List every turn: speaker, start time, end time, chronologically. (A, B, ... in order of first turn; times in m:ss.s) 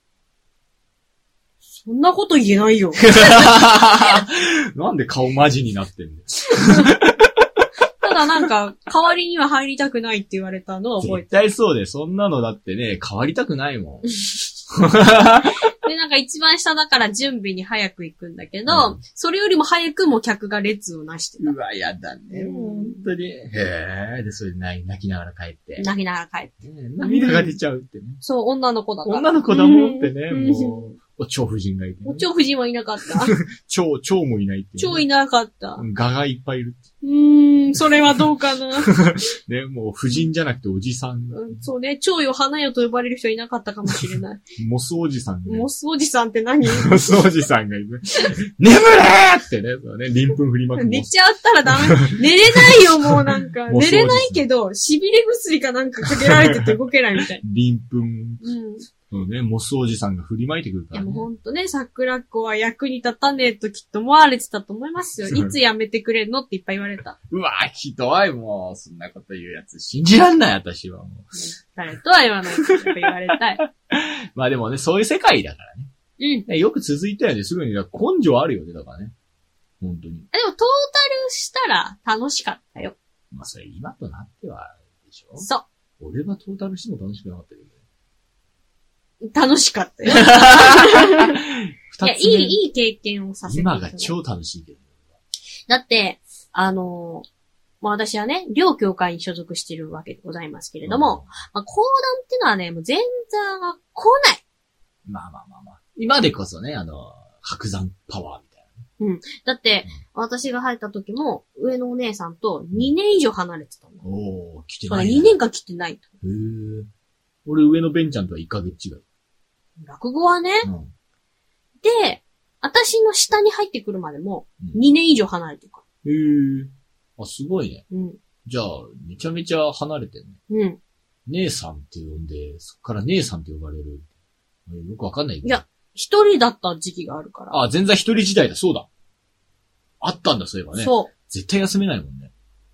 0:01.7-0:03.4 A
0:03.0-0:07.4 B
0:08.0-0:11.3 A
0:11.0-0:14.1 B
0:14.7-0:15.6 B
0:15.8-0:21.5 A
0:18.7-0:19.0 B
0:21.4-0:25.9 B
0:22.3-0:23.0 A
0:25.8-0:27.6 A
0:26.6-0:28.2 B
0:28.2-0:30.8 A
0:29.0-0:32.2 B
0:32.0-0:33.4 A
0:33.0-0:35.0 B
0:34.8-0:35.8 A
0:35.8-0:36.8 B
0:37.0-0:38.9 A
0:38.8-0:41.6 B
0:41.3-0:44.4 A
0:43.9-0:45.7 B
0:45.4-0:47.2 A
0:46.6-0:51.1 B
0:50.8-0:57.4 A
0:51.6-0:54.4 B
0:56.0-0:56.8 B
0:57.3-0:58.4 B
0:58.4-0:58.8 A
0:59.1-1:01.2 B
1:00.9-1:07.2 A
1:05.3-1:05.5 B
1:07.3-1:11.3 B
1:11.4-1:13.6 A
1:12.6-1:15.9 B
1:16.2-1:16.5 A
1:16.5-1:19.1 B
1:19.8-1:20.3 B
1:20.3-1:23.0 A
1:23.3-1:25.5 B
1:25.4-1:25.6 A
1:26.0-1:27.8 B
1:29.3-1:31.4 A
1:30.1-1:32.6 B
1:32.0-1:34.1 A
1:33.4-1:34.9 B
1:35.7-1:37.2 A
1:37.8-1:44.4 A
1:40.8-1:41.3 B
1:45.0-1:48.8 B
1:49.0-1:54.0 A
1:54.0-1:55.3 B
1:54.9-1:56.0 A
1:56.2-1:56.9 B
1:57.4-1:59.0 B
1:59.8-2:00.7 A
2:00.6-2:00.9 B
2:01.8-2:05.8 A
2:06.0-2:07.8 B
2:07.9-2:08.2 A
2:08.4-2:10.4 B
2:10.5-2:10.8 A
2:11.3-2:14.1 B
2:14.7-2:15.6 B
2:15.4-2:17.6 A
2:17.5-2:18.9 B
2:20.0-2:22.3 B
2:20.8-2:21.1 A